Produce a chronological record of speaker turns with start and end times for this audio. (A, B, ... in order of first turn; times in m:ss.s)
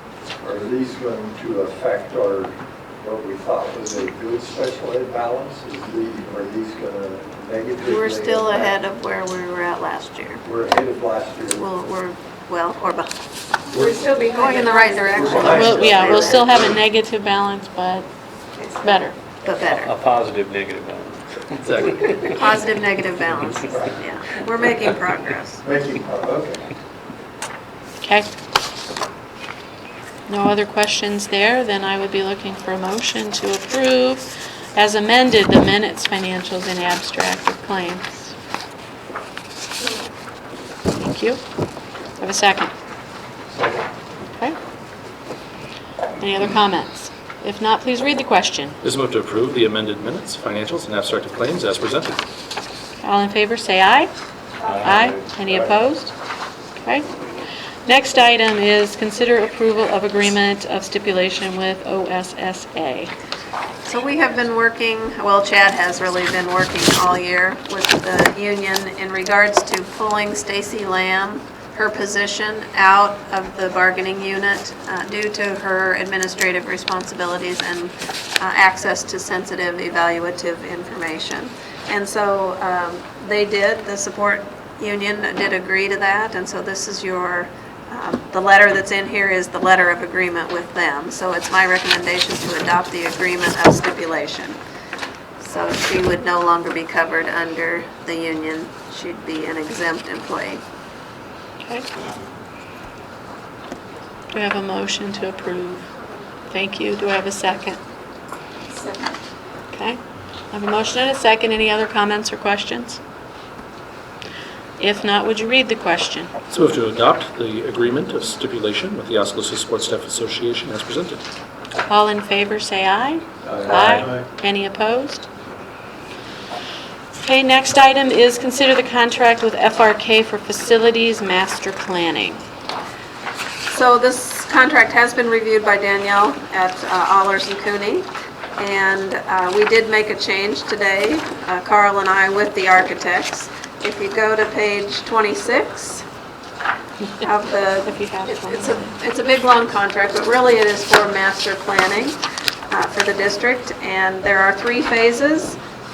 0:00.4-0:08.8 A
0:07.8-0:10.4 B
0:10.4-0:11.6 A
0:11.5-0:13.1 B
0:13.7-0:15.8 C
0:14.3-0:16.6 B
0:15.1-0:16.8 A
0:15.4-0:18.1 D
0:18.6-0:19.0 C
0:18.8-0:19.2 D
0:19.4-0:19.9 B
0:19.7-0:22.2 E
0:21.6-0:22.3 F
0:22.3-0:25.6 B
0:23.7-0:24.0 A
0:25.6-0:26.7 A
0:28.0-0:28.3 D
0:30.3-0:34.2 D
0:34.8-0:38.3 D
0:41.0-0:41.4 D
0:42.2-0:42.7 D
0:43.5-0:43.8 A
0:46.2-0:48.8 D
0:48.8-0:52.1 F
0:53.0-0:54.1 D
0:54.6-0:55.0 C
0:54.8-0:56.2 D
0:56.8-0:57.1 D
0:57.8-1:03.1 D
1:03.8-1:34.6 B
1:35.4-1:40.6 B
1:41.6-1:41.9 D
1:44.3-1:45.9 D
1:46.5-1:47.8 D
1:48.7-1:49.2 C
1:49.7-1:50.0 D
1:50.5-1:53.0 D
1:54.8-1:56.4 D
1:56.5-2:01.2 F
2:01.9-2:05.3 D
2:03.5-2:04.2 A
2:03.7-2:04.1 F
2:07.2-2:12.4 D
2:13.7-2:26.0 B
2:27.2-2:32.2 B
2:27.9-2:28.9 D
2:32.7-2:35.6 B